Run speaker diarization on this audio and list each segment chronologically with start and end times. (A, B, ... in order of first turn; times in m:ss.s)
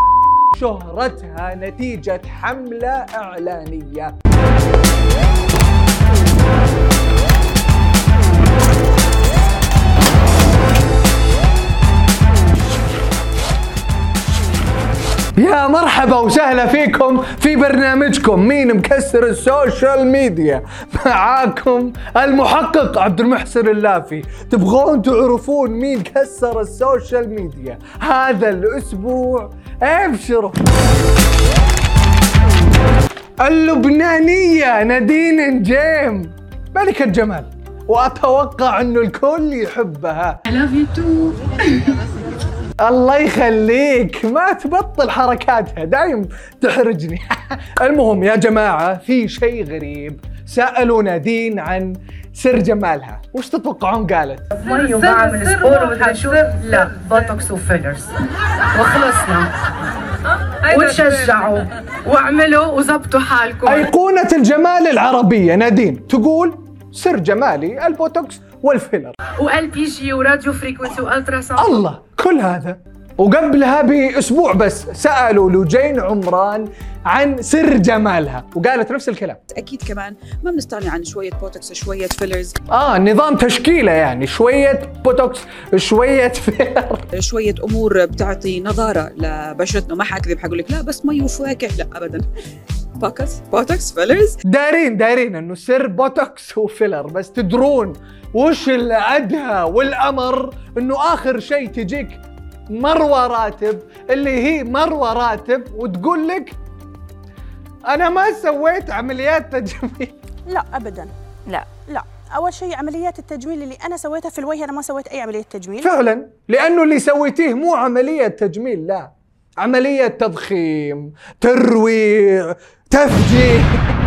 0:00.5-0:04.1 A
0:15.4-0:30.6 A
0:33.4-0:40.4 A
0:40.6-0:41.4 B
0:42.8-0:54.6 A
0:54.6-0:58.1 B
0:58.8-0:59.5 B
1:00.7-1:03.8 B
1:03.6-1:09.2 A
1:09.4-1:11.8 B
1:11.6-1:19.4 A
1:19.6-1:22.5 C
1:22.7-1:27.0 A
1:27.2-1:32.2 C
1:33.0-1:34.2 C
1:34.5-1:46.6 A
1:47.9-1:50.1 A
1:50.5-1:51.1 D
1:51.7-1:55.9 D
1:55.8-2:03.8 A